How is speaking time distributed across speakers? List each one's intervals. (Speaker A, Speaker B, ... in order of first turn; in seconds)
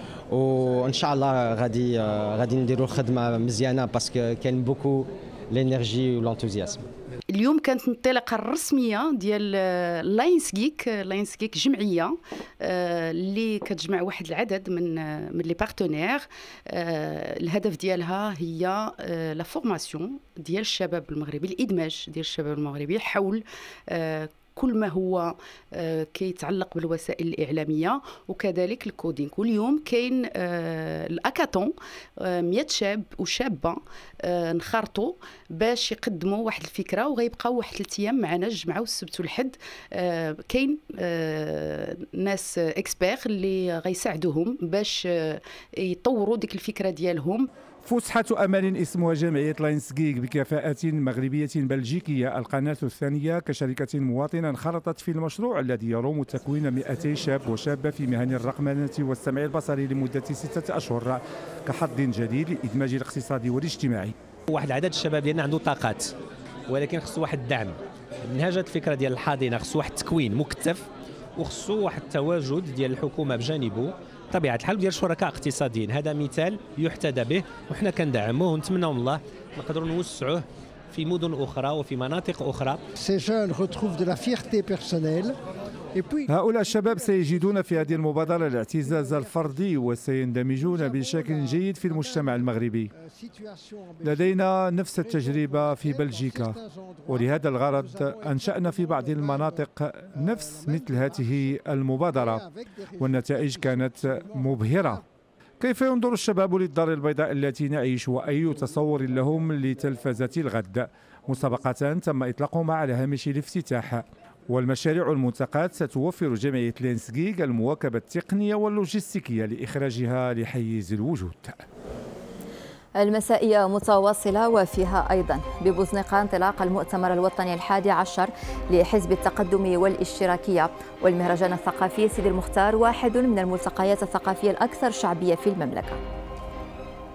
Speaker A: 0.3-6.9
Speaker B: 7.3-47.5
Speaker C: 47.8-64.1, 86.3-92.9, 94.0-102.5, 103.0-105.0, 105.6-121.6
Speaker D: 64.5-66.1, 66.7-82.8
Speaker E: 123.0-136.0